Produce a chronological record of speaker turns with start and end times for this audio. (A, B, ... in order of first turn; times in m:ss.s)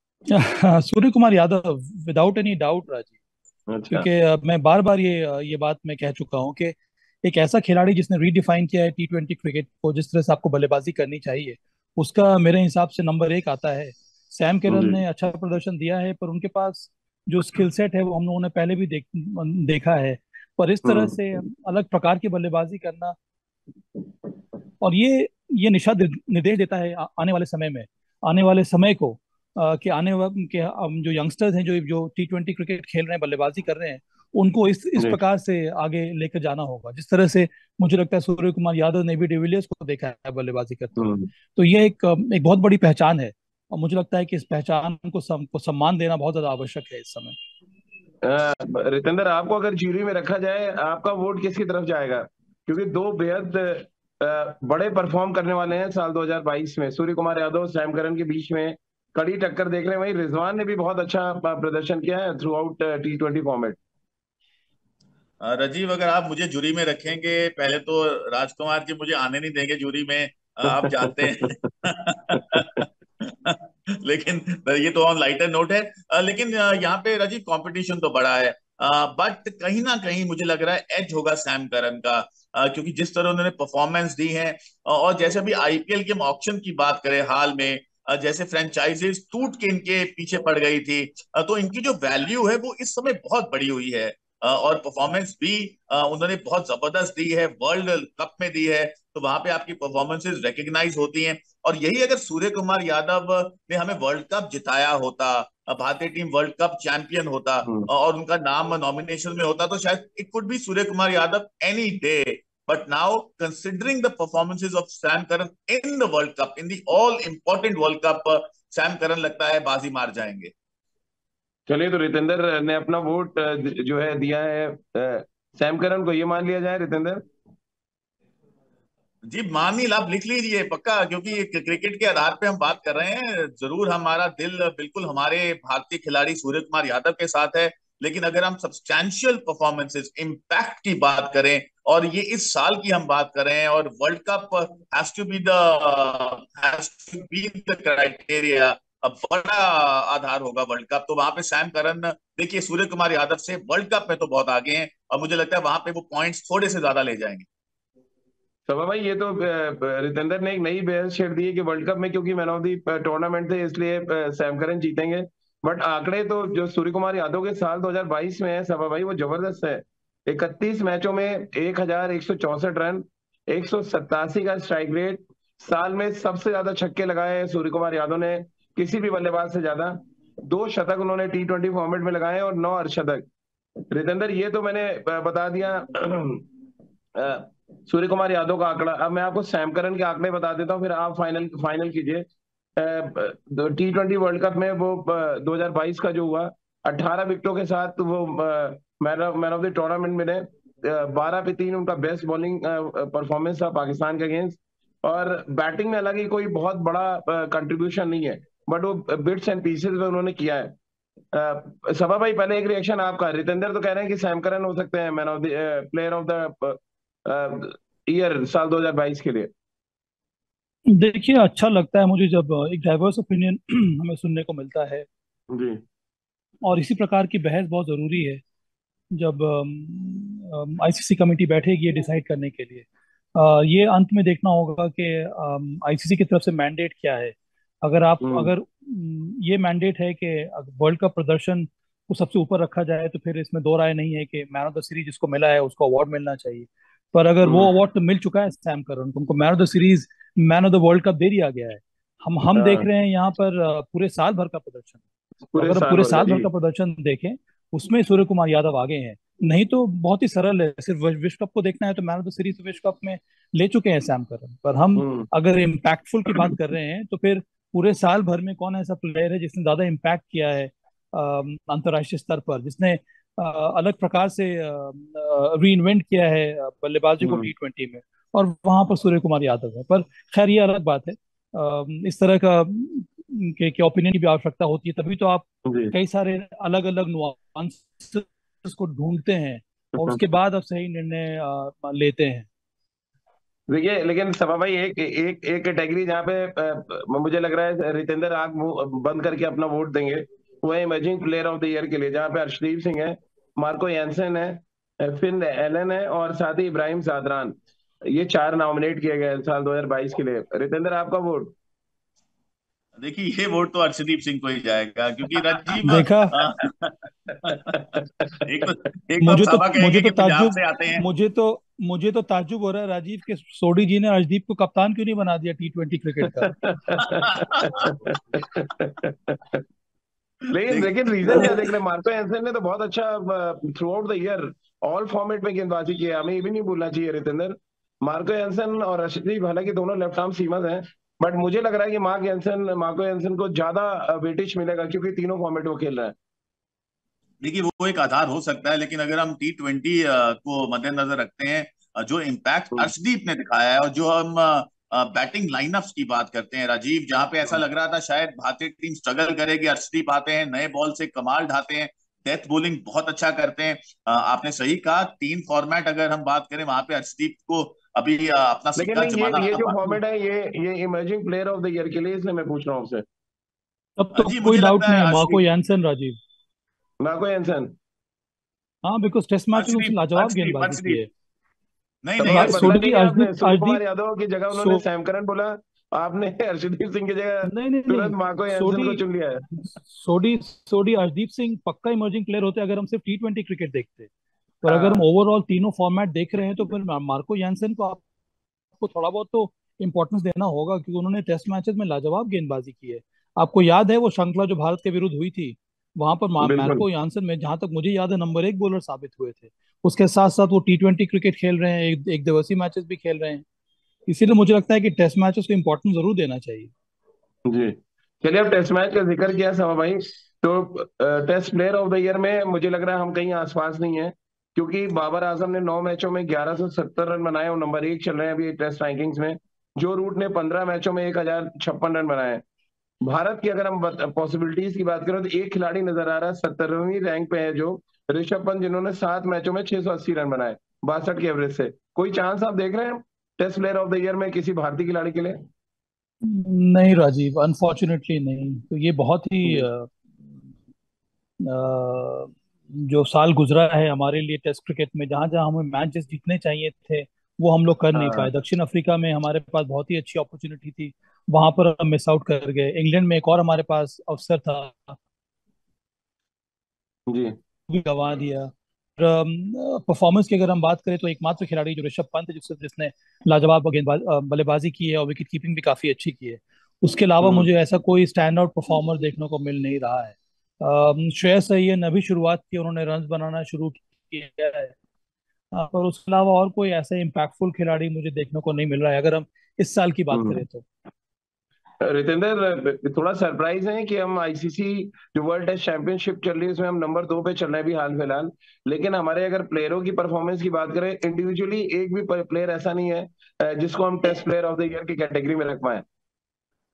0:00.3-0:03.1 A
0:03.7-0:04.1 B
0:03.9-0:23.2 A
0:14.7-0:15.0 B
0:20.8-0:21.1 B
0:24.8-0:47.4 A
0:41.0-0:41.3 B
0:48.2-1:03.8 B
1:05.4-2:00.5 C
1:10.8-1:11.5 B
2:01.7-2:07.2 B
2:09.3-2:37.4 C
2:38.7-3:03.3 B
3:03.9-3:06.4 B
3:07.2-3:12.3 B
3:12.8-3:30.7 B
3:31.3-3:39.5 B
3:40.9-3:45.1 A
3:45.5-3:45.8 B
3:46.6-3:48.4 A
3:49.1-4:15.0 A
3:58.2-3:58.5 B
4:07.4-4:07.7 B
4:12.6-4:12.9 B
4:15.5-4:16.5 B
4:15.6-4:52.5 A
4:25.0-4:25.3 B
4:37.2-4:37.5 B
4:45.6-4:45.9 B
4:53.7-5:07.6 B
5:08.1-5:11.5 B
5:13.0-5:17.8 C
5:15.8-5:16.4 A
5:17.5-5:18.7 B
5:18.4-5:21.0 C
5:19.2-5:26.6 A
5:26.5-5:29.6 B
5:27.1-5:27.9 C
5:30.5-5:46.2 B
5:30.7-5:31.7 C
5:47.4-6:09.9 C
6:08.8-6:13.0 B
6:14.0-6:16.2 A
6:14.1-6:15.4 C
6:17.0-6:17.8 B
6:18.8-6:21.1 A
6:19.6-6:21.0 C
6:22.0-6:22.7 C
6:22.2-6:29.5 B
6:22.2-6:23.8 A
6:24.5-6:24.8 A
6:27.4-6:29.0 A
6:29.7-6:34.1 A
6:34.6-6:38.0 A
6:34.7-6:35.0 B
6:38.8-6:53.4 A
6:46.4-6:46.8 B
6:54.1-6:56.7 A
6:57.5-7:12.4 B
7:13.0-7:25.4 B
7:26.2-7:29.9 A
7:31.4-7:45.0 A
7:37.9-7:38.3 B
7:47.1-7:47.4 B
7:47.7-8:04.8 A
7:57.2-7:57.5 B
8:05.5-8:10.6 A
8:10.1-8:10.4 B
8:11.8-8:25.8 B